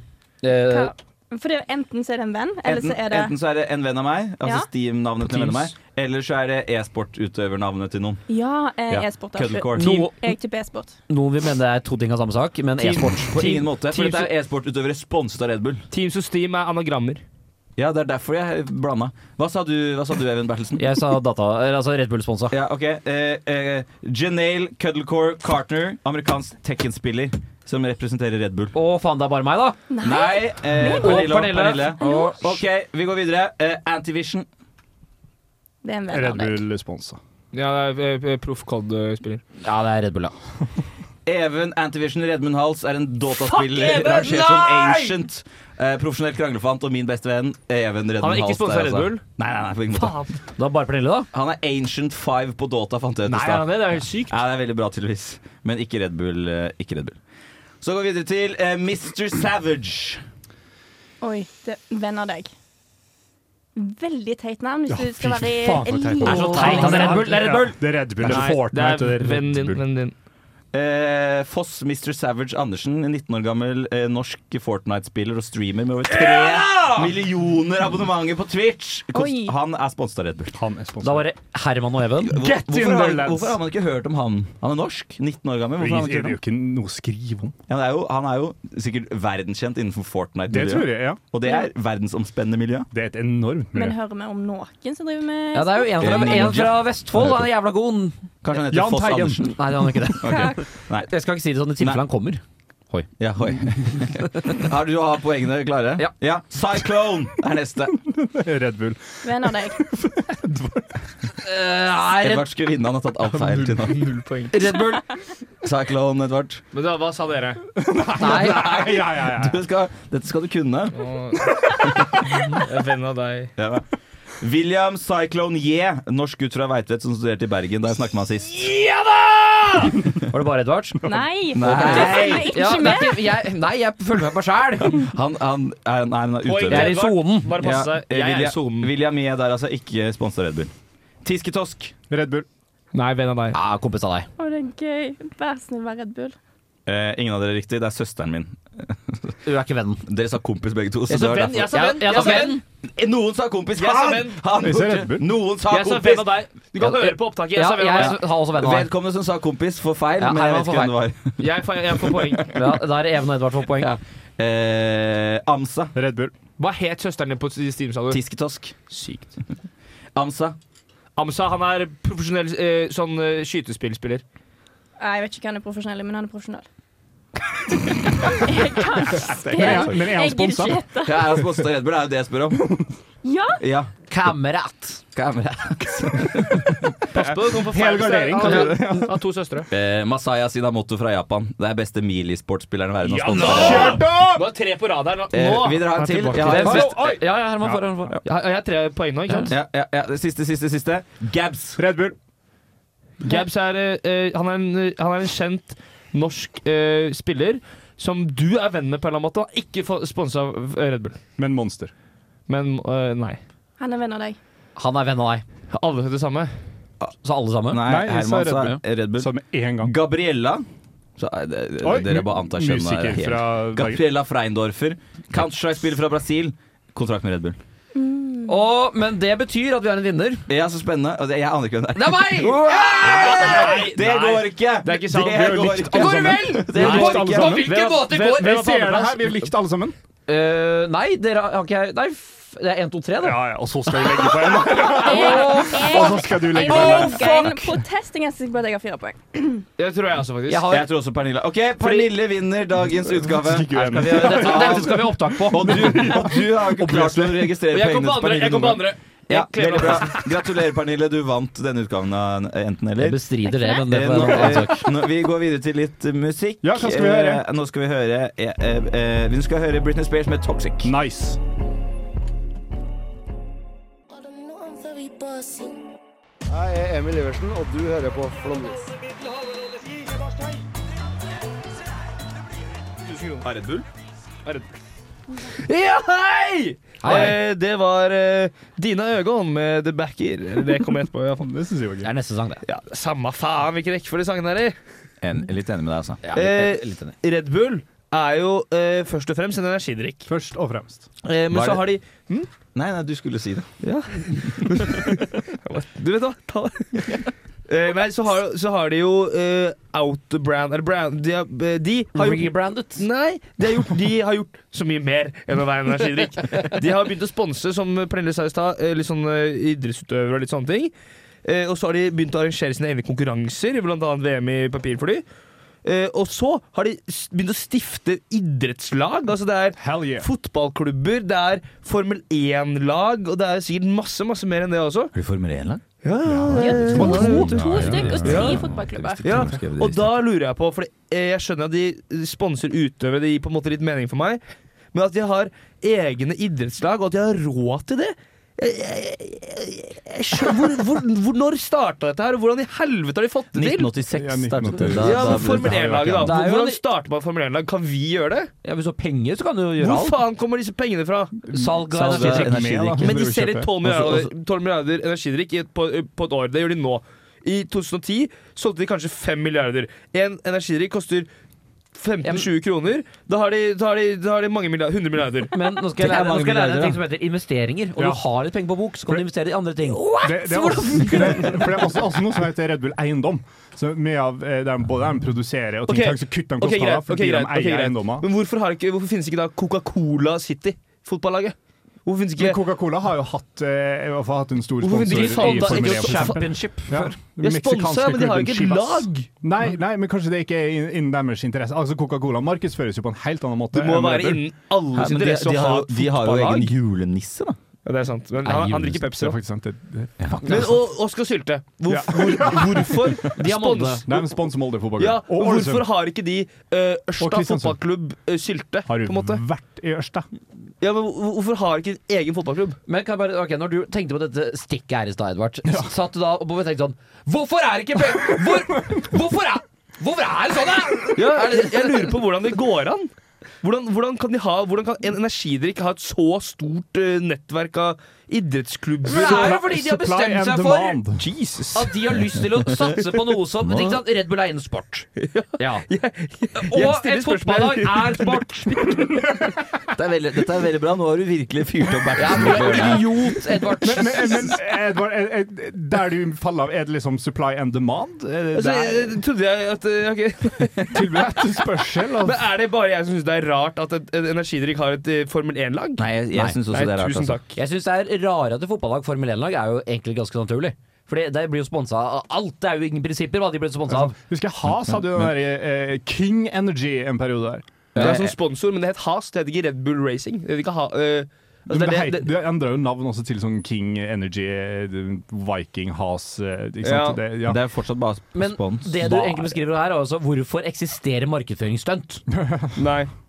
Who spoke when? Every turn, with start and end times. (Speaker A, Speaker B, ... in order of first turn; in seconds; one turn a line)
Speaker A: 0.4-0.9
Speaker B: 0.6-3.4
Speaker C: 2.6-8.2
Speaker B: 4.4-4.7
Speaker A: 5.3-5.6
Speaker B: 8.3-10.9
Speaker C: 8.9-10.1
Speaker A: 9.8-10.1
Speaker D: 9.8-10.1
Speaker A: 11.1-13.5
Speaker C: 12.8-15.8
Speaker D: 13.3-14.3
Speaker D: 15.9-17.2
Speaker C: 17.8-21.0
Speaker A: 20.8-22.6
Speaker C: 22.5-28.8
Speaker A: 28.7-29.8
Speaker B: 29.9-31.4
Speaker C: 30.0-34.5
Speaker A: 30.8-32.4
Speaker B: 32.0-32.4
Speaker B: 35.8-36.6
Speaker E: 36.1-37.2
Speaker D: 37.5-39.4
Speaker A: 39.6-40.4
Speaker C: 41.3-50.3
Speaker D: 43.4-45.1
Speaker D: 48.2-49.2
Speaker D: 49.9-50.4
Speaker A: 50.6-51.3
Speaker C: 51.3-57.2
Speaker D: 53.3-54.4
Speaker C: 57.8-60.2
Speaker B: 61.2-62.5
Speaker B: 63.8-67.1
Speaker E: 64.9-69.8
Speaker A: 66.2-68.5
Speaker D: 66.4-70.1
Speaker C: 70.7-80.6
Speaker D: 76.2-76.9
Speaker B: 79.1-79.5
Speaker E: 80.5-81.3
Speaker A: 81.0-82.3
Speaker E: 82.3-83.6
Speaker C: 82.3-86.4
Speaker E: 85.8-87.5
Speaker C: 87.7-92.9
Speaker E: 90.5-91.2
Speaker E: 92.9-94.0
Speaker B: 93.7-96.6
Speaker A: 95.5-98.2
Speaker C: 96.0-97.4
Speaker C: 98.4-99.6
Speaker E: 98.6-99.6
Speaker A: 99.4-103.1
Speaker C: 100.2-101.1
Speaker C: 103.2-108.0
Speaker E: 108.0-111.1
Speaker B: 109.2-109.8
Speaker A: 111.4-112.5
Speaker C: 112.2-114.1
Speaker D: 113.9-114.5
Speaker A: 114.5-115.0
Speaker C: 115.6-116.6
Speaker D: 116.7-117.6
Speaker E: 117.8-119.6
Speaker A: 118.2-118.7
Speaker C: 118.4-121.1
Speaker D: 120.9-121.5
Speaker D: 122.5-123.5
Speaker C: 123.6-123.9
Speaker C: 124.4-128.7
Speaker D: 128.6-129.9
Speaker A: 130.3-135.0
Speaker B: 131.1-133.3
Speaker C: 131.5-132.6
Speaker C: 134.9-140.7
Speaker D: 136.4-138.9
Speaker A: 136.7-137.7
Speaker C: 141.2-141.9
Speaker E: 142.1-142.5
Speaker D: 142.9-143.6
Speaker A: 143.5-144.3
Speaker B: 144.4-146.3
Speaker C: 146.9-149.3
Speaker A: 149.5-150.0
Speaker C: 150.1-156.3
Speaker D: 151.1-152.6
Speaker A: 151.6-152.6
Speaker D: 153.8-154.4
Speaker E: 154.6-155.3
Speaker D: 155.7-158.2
Speaker A: 156.8-158.9
Speaker C: 158.0-162.4
Speaker A: 160.2-161.0
Speaker D: 161.4-162.5
Speaker A: 162.5-164.0
Speaker C: 163.8-166.0
Speaker E: 165.9-166.3
Speaker D: 166.6-168.2
Speaker C: 168.1-168.8
Speaker D: 168.9-169.3
Speaker C: 170.2-170.6
Speaker D: 171.2-174.2
Speaker B: 175.0-176.7
Speaker B: 177.8-181.3
Speaker E: 179.1-180.8
Speaker C: 181.0-182.7
Speaker E: 182.6-182.9
Speaker B: 183.2-183.6
Speaker C: 183.6-183.9
Speaker A: 184.1-185.0
Speaker C: 185.1-187.0
Speaker E: 186.3-186.6
Speaker E: 187.1-189.2
Speaker D: 187.1-189.7
Speaker C: 189.7-194.1
Speaker D: 193.0-196.9
Speaker E: 193.4-194.5
Speaker C: 195.3-197.0
Speaker E: 195.9-197.9
Speaker A: 196.2-198.2
Speaker D: 198.2-199.5
Speaker C: 199.5-201.8
Speaker E: 201.8-202.2
Speaker D: 203.2-211.2
Speaker E: 211.4-211.9
Speaker D: 212.5-213.4
Speaker B: 213.8-214.4
Speaker A: 214.8-215.4
Speaker D: 215.7-216.5
Speaker A: 217.2-217.8
Speaker C: 217.7-220.7
Speaker E: 217.8-219.9
Speaker C: 221.2-227.6
Speaker E: 221.8-224.0
Speaker B: 227.9-228.6
Speaker A: 228.5-230.5
Speaker C: 230.5-237.7
Speaker A: 231.9-234.0
Speaker D: 233.0-239.3
Speaker E: 235.3-239.9
Speaker A: 235.9-238.8
Speaker A: 240.3-243.5
Speaker E: 243.2-247.6
Speaker A: 244.7-246.1
Speaker B: 244.7-249.6
Speaker A: 246.7-247.4
Speaker D: 249.8-250.7
Speaker A: 250.5-250.9
Speaker C: 250.7-263.3
Speaker D: 251.8-252.1
Speaker E: 253.0-257.6
Speaker A: 253.8-256.1
Speaker D: 257.7-260.4
Speaker A: 263.0-264.9
Speaker B: 263.5-263.8
Speaker C: 263.8-270.9
Speaker E: 266.6-267.4
Speaker E: 270.8-271.4
Speaker F: 276.5-278.7
Speaker D: 283.1-283.4
Speaker C: 283.4-283.9
Speaker D: 285.4-291.5
Speaker A: 287.0-287.4
Speaker E: 291.4-292.1
Speaker A: 292.0-292.6
Speaker D: 292.6-294.8
Speaker C: 295.2-296.2
Speaker A: 296.2-297.1
Speaker D: 296.3-300.3
Speaker E: 300.3-301.1
Speaker D: 301.2-302.3
Speaker C: 301.5-301.9
Speaker C: 302.7-303.7
Speaker D: 303.8-320.9
Speaker A: 312.1-313.0
Speaker D: 321.4-325.2
Speaker D: 325.8-335.1
Speaker E: 329.8-330.3
Speaker C: 335.1-335.8
Speaker D: 336.0-338.7
Speaker E: 336.2-337.8
Speaker B: 336.6-339.3
Speaker C: 336.8-340.1
Speaker A: 337.3-338.2
Speaker D: 339.2-344.4
Speaker D: 344.9-353.9
Speaker C: 353.5-356.4
Speaker E: 354.1-355.8
Speaker D: 354.9-358.5
Speaker A: 356.2-356.8
Speaker A: 358.6-360.2
Speaker D: 359.8-361.4
Speaker A: 361.5-362.9
Speaker C: 361.9-363.3
Speaker E: 362.0-364.0
Speaker D: 363.0-371.3
Speaker C: 363.9-364.3
Speaker D: 371.9-375.5
Speaker A: 372.2-372.5
Speaker A: 375.5-381.7
Speaker C: 376.0-377.0
Speaker E: 378.0-378.2
Speaker E: 380.2-388.3
Speaker D: 385.9-392.6
Speaker E: 392.4-404.4
Speaker D: 394.8-396.5
Speaker A: 395.1-397.2
Speaker D: 397.4-399.3
Speaker D: 403.7-406.7
Speaker C: 404.9-407.6
Speaker D: 407.9-409.4
Speaker A: 408.4-409.0
Speaker E: 408.9-410.7
Speaker C: 410.2-410.6
Speaker D: 410.5-414.2
Speaker E: 411.9-413.3
Speaker A: 413.3-414.1
Speaker E: 414.1-415.9
Speaker D: 415.0-419.4
Speaker E: 417.2-417.8
Speaker E: 418.9-420.3
Speaker D: 420.8-422.8
Speaker A: 422.9-432.1
Speaker D: 431.1-433.1
Speaker D: 433.6-439.6
Speaker A: 439.1-441.0
Speaker E: 439.1-441.3
Speaker D: 441.2-441.9
Speaker A: 441.7-445.9
Speaker C: 443.6-444.0
Speaker D: 445.2-448.4
Speaker A: 446.6-449.0
Speaker E: 449.2-449.5
Speaker C: 449.9-453.1
Speaker A: 452.2-454.6
Speaker E: 453.8-459.2
Speaker D: 458.5-461.2
Speaker E: 460.9-462.4
Speaker D: 462.2-466.0
Speaker C: 466.0-467.4
Speaker D: 466.7-467.6
Speaker A: 467.6-474.2
Speaker E: 473.9-477.7
Speaker A: 477.9-478.2
Speaker D: 477.9-482.3
Speaker E: 481.7-487.6
Speaker D: 486.8-487.2
Speaker C: 487.4-489.3
Speaker A: 488.3-492.2
Speaker E: 492.3-492.9
Speaker D: 492.8-493.1